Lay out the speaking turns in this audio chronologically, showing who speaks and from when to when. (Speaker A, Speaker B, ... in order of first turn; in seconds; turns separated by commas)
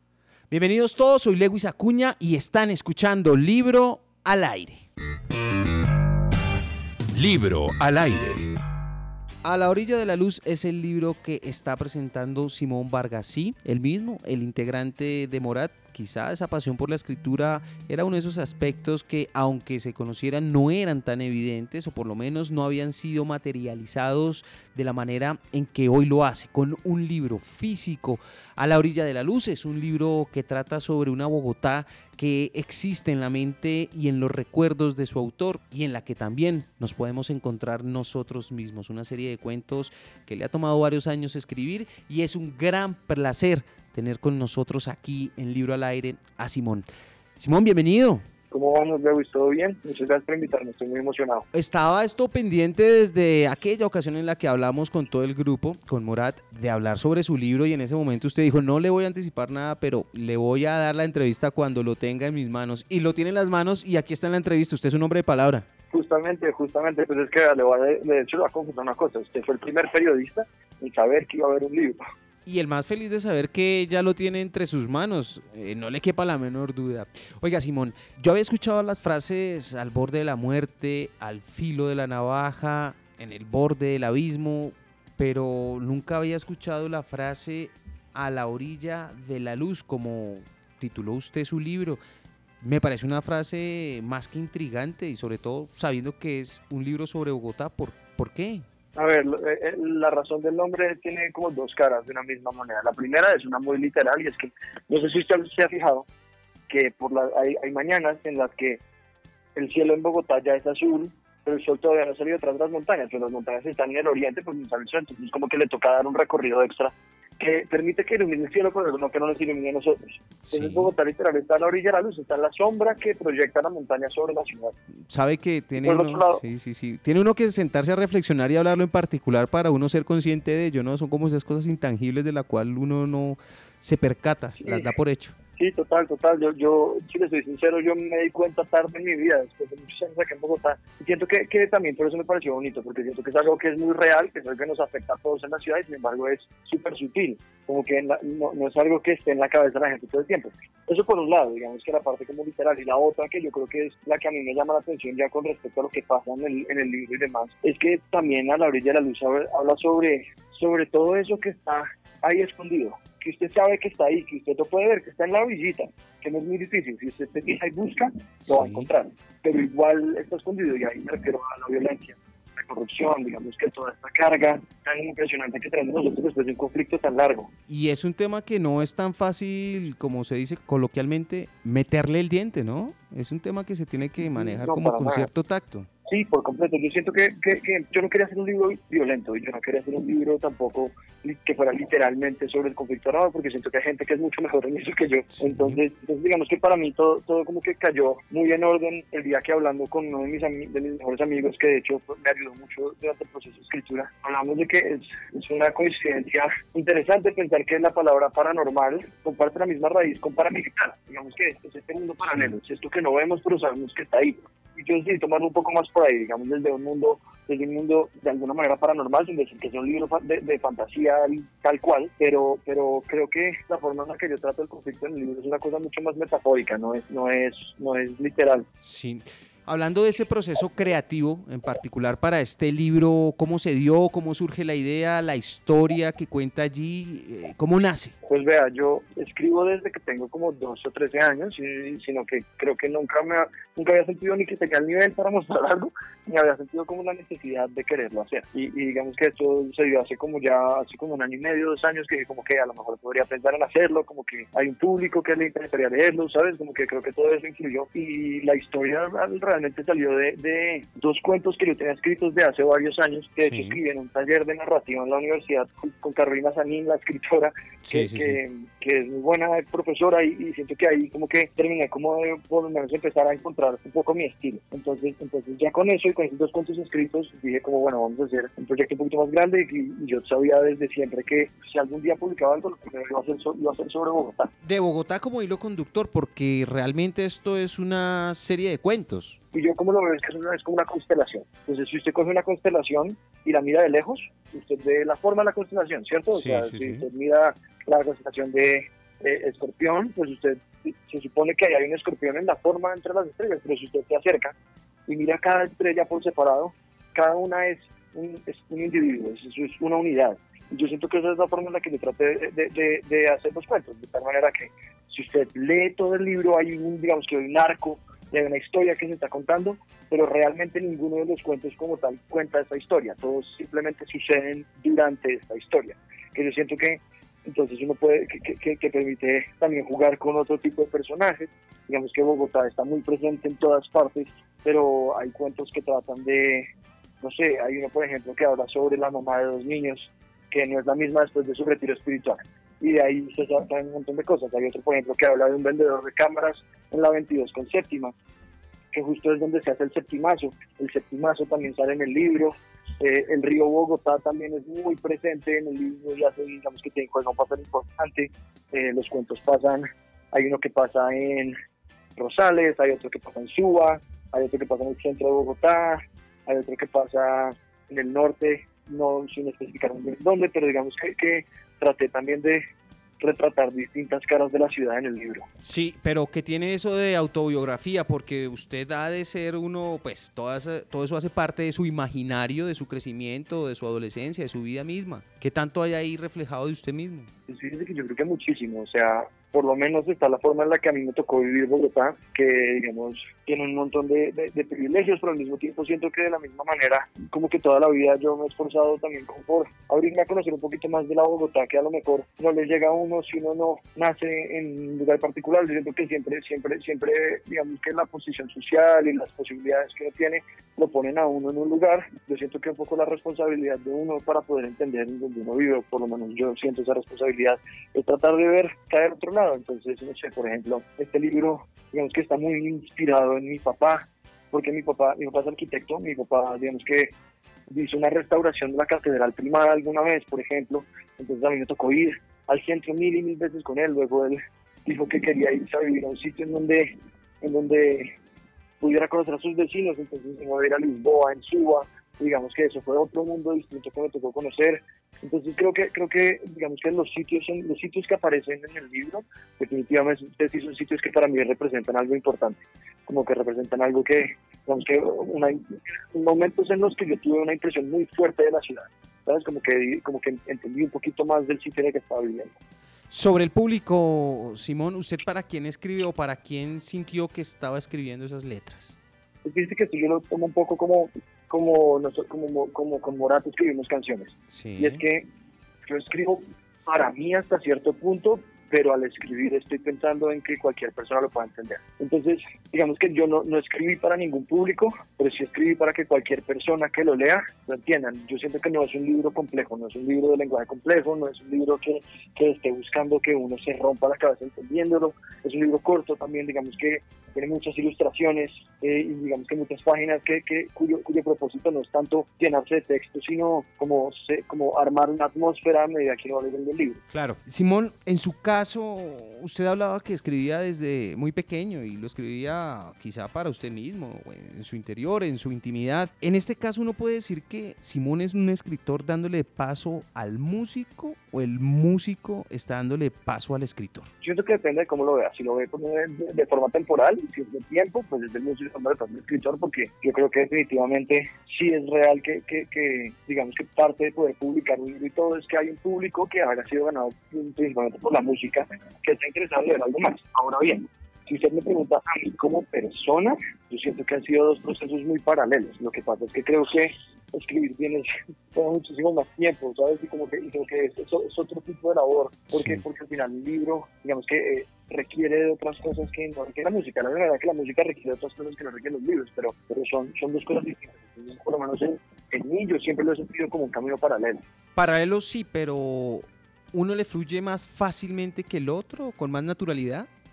Speaker A: 0.5-4.8, Speaker A: 7.1-8.5, Speaker A: 9.4-46.9, Speaker A: 47.4-48.2, Speaker B: 48.5-51.5, Speaker A: 51.5-65.7, Speaker B: 65.9-72.0, Speaker A: 72.5-92.0, Speaker A: 92.6-98.7, Speaker B: 99.0-106.1, Speaker B: 106.7-108.8, Speaker B: 109.6-124.8, Speaker A: 120.4-120.9, Speaker A: 125.1-135.3, Speaker B: 125.8-126.4, Speaker B: 134.6-134.9, Speaker B: 135.6-177.5, Speaker A: 168.5-168.9, Speaker A: 177.7-185.9, Speaker B: 184.3-185.3, Speaker B: 186.1-228.7, Speaker A: 195.3-195.8, Speaker A: 212.2-212.5, Speaker A: 228.8-238.1, Speaker B: 238.3-284.5, Speaker A: 263.4-263.8, Speaker A: 267.8-268.4, Speaker A: 284.6-289.4, Speaker B: 289.5-304.6, Speaker A: 296.3-297.1, Speaker B: 305.1-336.7, Speaker B: 337.2-348.1, Speaker B: 348.9-361.6, Speaker B: 362.2-372.6, Speaker B: 373.2-375.5, Speaker A: 375.6-387.3, Speaker B: 387.5-427.1, Speaker B: 427.7-438.1, Speaker B: 438.8-462.5, Speaker A: 463.1-469.0, Speaker B: 469.4-475.3, Speaker A: 474.5-475.0, Speaker B: 475.9-507.0, Speaker A: 507.1-524.1, Speaker B: 524.2-564.4, Speaker A: 552.5-552.8, Speaker A: 564.8-570.1